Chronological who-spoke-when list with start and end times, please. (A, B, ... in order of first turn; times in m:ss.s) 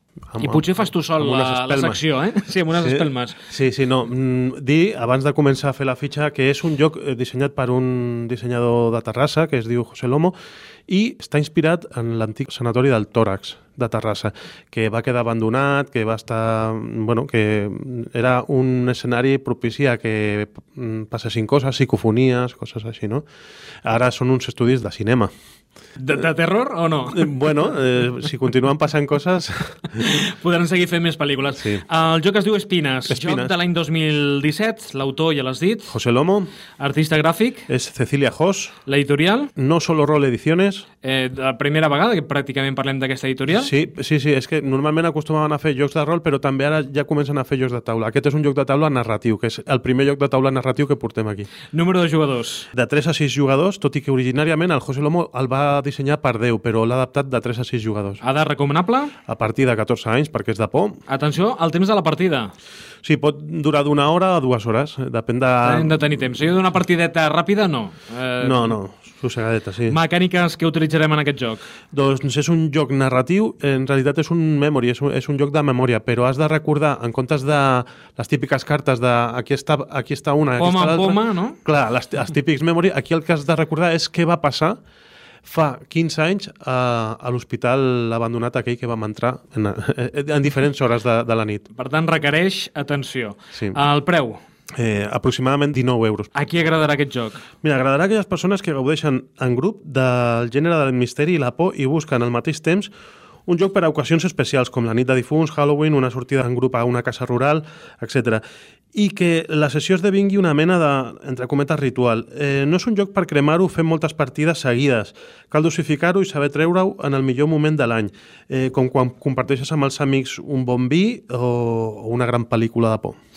0:00.3-0:02.0 A
0:00.4-0:03.4 B
0:02.7-0:10.3 A
0:10.9-0:23.2 A
0:23.8-0:25.3 A
0:26.0-0:27.3 B
0:27.1-0:29.9 A
0:29.9-0:35.9 B
0:33.1-0:33.5 A
0:35.9-0:36.5 A
0:36.8-0:37.7 B
0:37.7-0:38.8 A
0:38.8-0:39.5 B
0:39.6-0:40.8 A
0:41.0-0:43.7 B
0:43.5-0:51.5 A
0:51.7-0:52.7 B
0:52.7-0:58.2 A
0:58.2-0:59.1 B
0:59.3-1:01.0 A
1:01.1-1:02.5 B
1:03.0-1:06.0 A
1:05.6-1:08.8 B
1:08.4-1:09.9 A
1:09.9-1:11.6 B
1:11.9-1:24.8 A
1:20.6-1:21.6 B
1:25.4-1:31.6 A
1:31.7-1:34.4 B
1:33.5-1:33.8 A
1:34.8-1:36.3 A
1:36.3-1:37.4 B
1:37.6-1:42.9 A
1:43.5-1:48.4 A
1:48.9-2:03.2 A